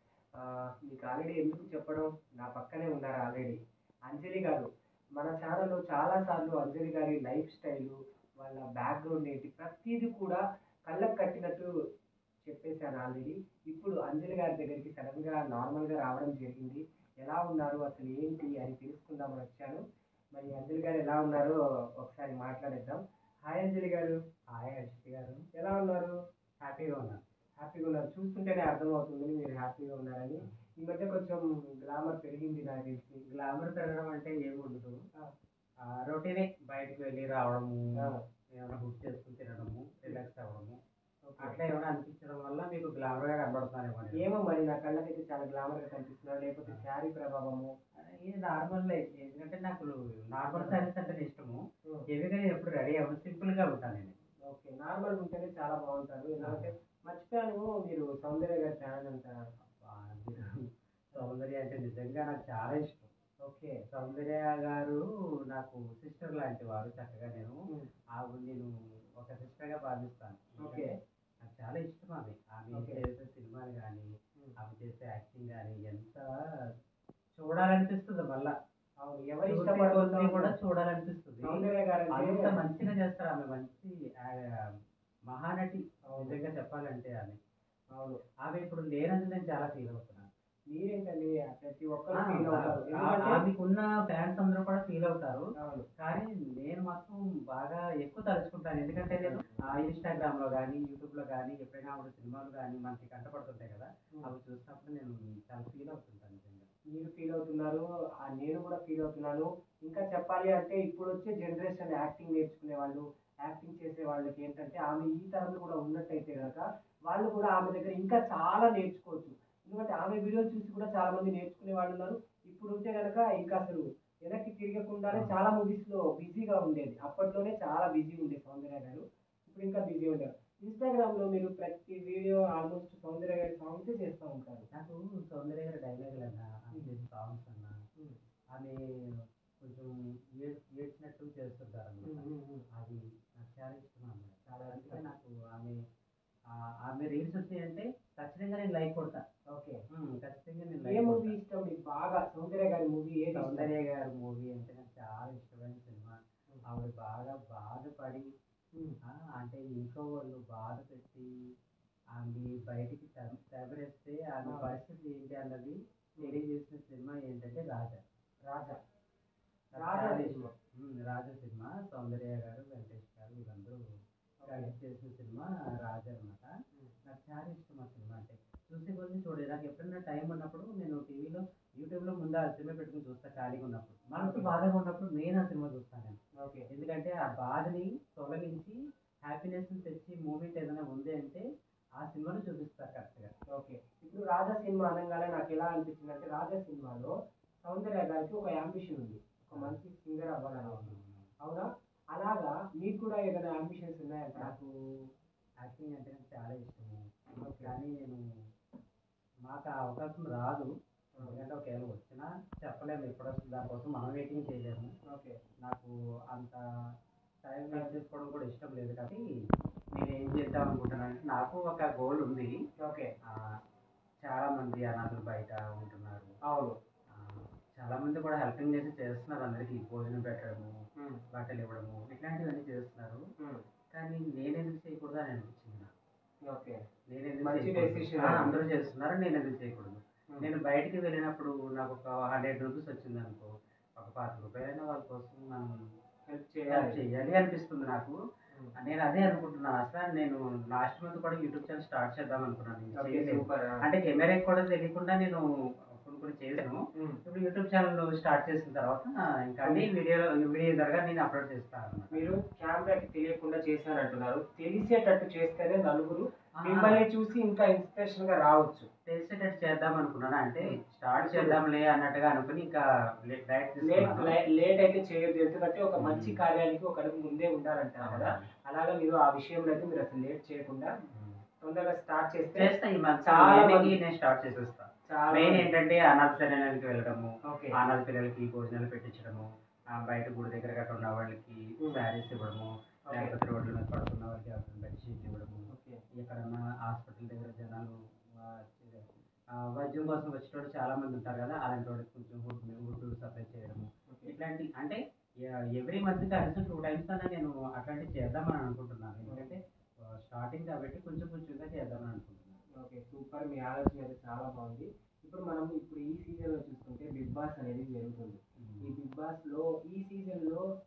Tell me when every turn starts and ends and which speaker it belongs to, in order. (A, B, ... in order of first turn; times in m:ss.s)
0:00.4-0:11.7 A
0:12.5-0:19.8 A
0:20.4-0:24.2 A
0:24.5-0:25.4 B
0:25.6-0:26.1 A
0:26.6-0:27.2 B
0:27.6-0:33.2 A
0:33.3-0:35.0 B
0:35.8-0:40.8 B
0:41.3-0:41.6 A
0:41.4-0:44.2 B
0:44.2-0:47.7 A
0:48.0-0:54.1 B
0:50.6-0:50.8 A
0:54.5-0:59.4 A
0:56.4-0:56.7 B
0:59.6-1:00.6 B
1:01.2-1:03.1 B
1:03.4-1:03.8 A
1:03.9-1:05.0 B
1:05.5-1:07.6 B
1:08.2-1:10.9 B
1:10.6-1:10.9 A
1:11.4-1:14.1 B
1:12.7-1:13.0 A
1:14.6-1:16.3 B
1:17.4-1:18.5 B
1:19.0-1:20.5 A
1:19.5-1:24.4 B
1:21.4-1:22.5 A
1:25.3-1:27.4 B
1:26.1-1:26.4 A
1:28.4-1:30.3 B
1:30.7-1:33.4 A
1:32.2-1:35.5 B
1:35.6-1:35.9 A
1:36.0-1:46.7 B
1:39.2-1:39.7 A
1:47.0-2:14.7 A
2:14.7-2:17.8 B
2:16.8-2:17.0 A
2:19.6-2:25.8 B
2:22.0-2:22.6 A
2:24.5-2:25.1 A
2:26.5-2:29.2 B
2:29.5-2:29.8 A
2:29.9-2:31.4 B
2:30.8-2:33.7 A
2:33.3-2:36.2 B
2:36.7-2:38.3 B
2:39.1-2:41.3 B
2:42.2-2:48.0 B
2:48.5-2:48.8 A
2:49.8-2:53.8 B
2:49.8-2:50.5 A
2:54.4-2:54.7 A
2:54.5-2:56.5 B
2:57.0-3:06.2 B
3:04.2-3:04.5 A
3:06.4-3:06.7 A
3:06.7-3:11.4 B
3:12.0-3:13.3 B
3:13.5-3:17.1 A
3:17.6-3:24.7 A
3:20.6-3:21.3 B
3:25.6-3:28.2 B
3:27.4-3:27.8 A
3:29.5-3:30.7 B
3:31.2-3:34.9 B
3:35.1-3:35.4 A
3:35.6-3:36.6 B
3:37.4-3:39.2 B
3:37.7-3:38.0 A
3:40.0-3:42.5 B
3:42.8-3:43.1 A
3:44.2-3:46.3 B
3:46.5-3:46.8 A
3:47.1-3:50.7 B
3:51.3-3:53.2 B
3:53.9-3:55.9 B
3:56.5-3:56.8 A
3:57.1-4:05.7 B
3:57.4-3:58.5 A
4:06.3-4:07.0 A
4:06.7-4:08.2 B
4:08.8-4:15.4 B
4:13.0-4:13.8 A
4:16.0-4:22.3 B
4:19.6-4:19.9 A
4:22.1-4:28.9 A
4:26.6-4:27.0 B
4:29.1-4:34.3 B
4:30.6-4:31.6 A
4:33.8-4:40.9 A
4:36.0-4:36.4 B
4:38.0-4:38.5 B
4:41.1-4:41.4 B
4:41.6-4:42.7 A
4:42.5-4:55.7 B
4:43.2-4:44.0 A
4:45.1-4:45.7 A
4:47.5-4:47.8 A
4:53.1-4:53.4 A
4:55.7-4:56.0 A
4:56.2-4:59.0 B
4:59.7-5:09.6 B
5:10.2-5:12.6 B
5:12.8-5:20.6 A
5:18.6-5:18.9 B